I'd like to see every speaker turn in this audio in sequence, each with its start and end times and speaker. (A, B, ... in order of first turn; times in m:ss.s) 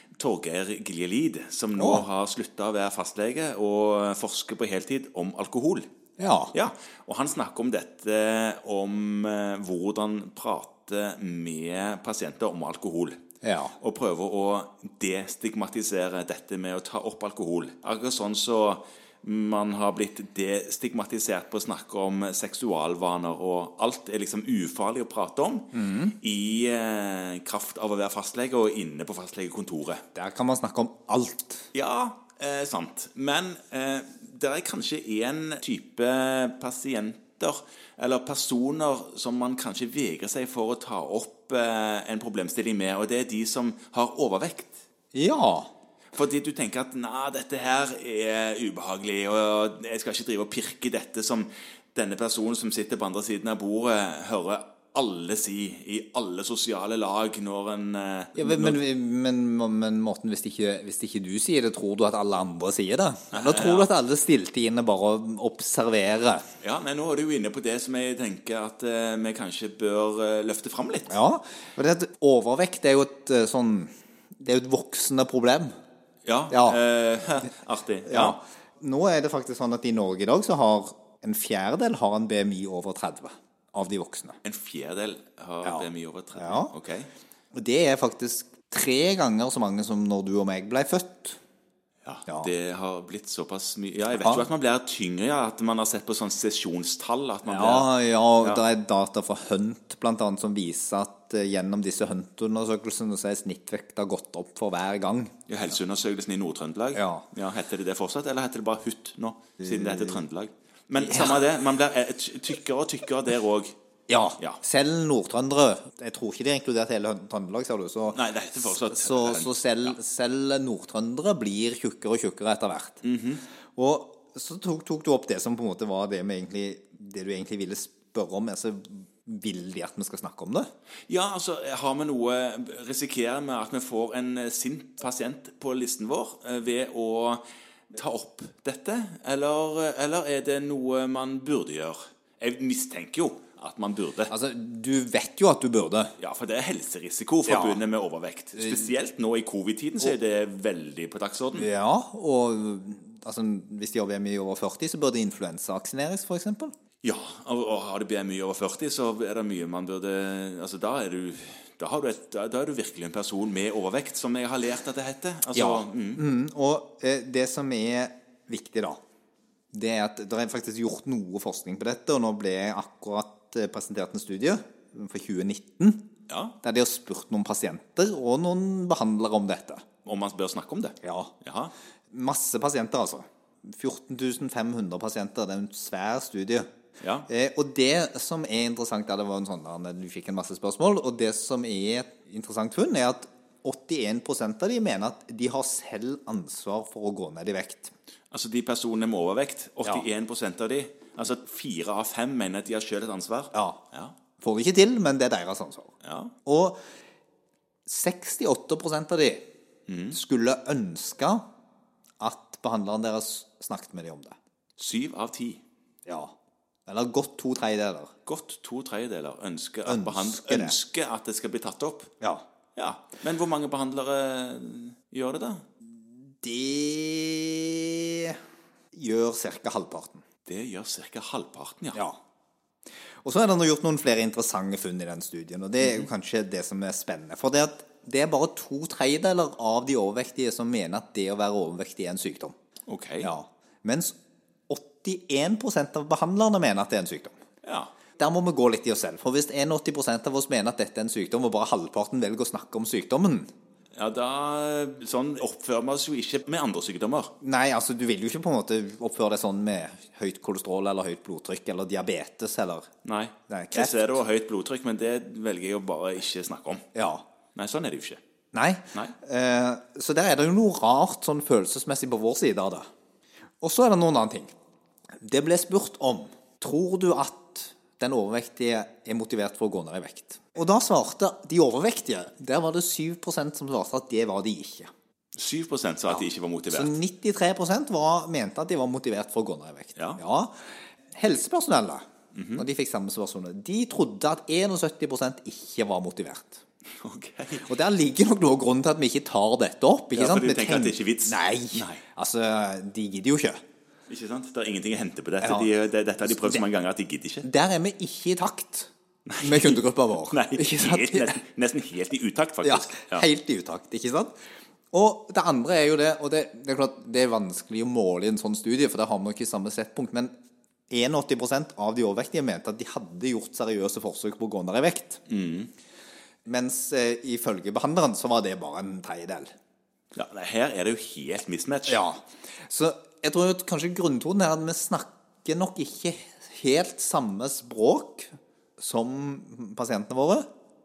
0:00.1-0:05.9 A
0:01.8-0:02.1 B
0:06.2-0:06.5 B
0:06.5-0:13.2 A
0:13.4-0:13.8 B
0:13.8-0:30.0 A
0:25.7-0:26.1 B
0:30.2-0:31.7 B
0:31.7-0:44.8 A
0:45.1-0:45.7 B
0:46.1-0:58.8 A
0:58.4-1:06.5 B
1:03.3-1:03.9 A
1:06.6-1:11.1 A
1:11.1-1:15.7 B
1:16.3-1:18.4 A
1:16.5-1:16.8 B
1:18.1-1:24.4 B
1:24.4-1:27.1 A
1:25.6-1:26.7 B
1:27.5-1:31.4 B
1:32.0-1:37.9 A
1:34.2-1:34.5 B
1:37.5-1:45.3 B
1:45.5-1:53.7 A
1:46.9-1:47.3 B
1:51.0-1:51.4 B
1:54.1-2:03.0 B
1:58.1-2:00.0 A
2:03.0-2:03.4 A
2:03.8-2:10.7 B
2:11.1-2:24.3 A
2:24.3-2:26.1 B
2:26.2-2:31.7 A
2:27.5-2:27.8 B
2:31.5-2:36.7 B
2:37.0-2:46.2 A
2:45.5-2:49.0 B
2:49.7-2:56.0 B
2:56.3-2:56.6 A
2:56.6-2:59.8 B
3:00.0-3:01.7 A
3:01.0-3:01.3 B
3:02.1-3:06.7 B
3:07.0-3:07.3 A
3:07.3-3:17.9 B
3:18.3-3:24.2 A
3:23.5-3:23.8 B
3:24.4-3:25.9 B
3:26.0-3:26.3 A
3:26.5-3:26.8 B
3:27.9-3:29.4 B
3:29.9-3:30.2 A
3:30.1-3:31.4 B
3:32.2-3:34.4 B
3:34.8-3:35.6 A
3:36.1-3:36.3 B
3:36.9-3:38.1 B
3:38.3-3:42.1 A
3:39.8-3:40.8 B
3:42.8-3:45.6 A
3:46.4-3:48.4 B
3:48.9-3:50.2 B
3:50.5-3:52.0 A
3:53.2-4:02.5 B
4:02.9-4:03.3 A
4:03.2-4:04.1 B
4:04.7-4:07.4 B
4:07.6-4:07.9 A
4:08.2-4:13.5 B
4:14.0-4:17.3 A
4:17.4-4:22.9 B
4:23.0-4:26.8 A
4:23.5-4:24.2 B
4:27.0-4:27.2 B
4:27.6-4:28.2 A
4:28.5-4:32.9 B
4:33.6-4:34.5 B
4:35.2-4:44.9 B
4:45.4-4:47.0 A
4:46.1-4:50.6 B
4:50.0-4:50.2 A
4:51.1-4:52.0 B
4:52.3-4:52.6 A
4:52.6-4:56.6 B
4:57.0-4:57.7 A
4:57.6-5:03.6 B
5:00.1-5:02.0 A
5:04.1-5:07.5 A
5:05.4-5:05.7 B
5:06.3-5:06.6 B
5:07.4-5:08.9 B
5:09.3-5:13.2 A
5:09.4-5:11.4 B
5:12.6-5:14.3 B
5:14.9-5:20.3 B
5:20.9-5:25.2 B
5:25.3-5:25.7 A
5:26.5-5:29.5 B
5:30.1-5:32.0 A
5:31.9-5:40.5 B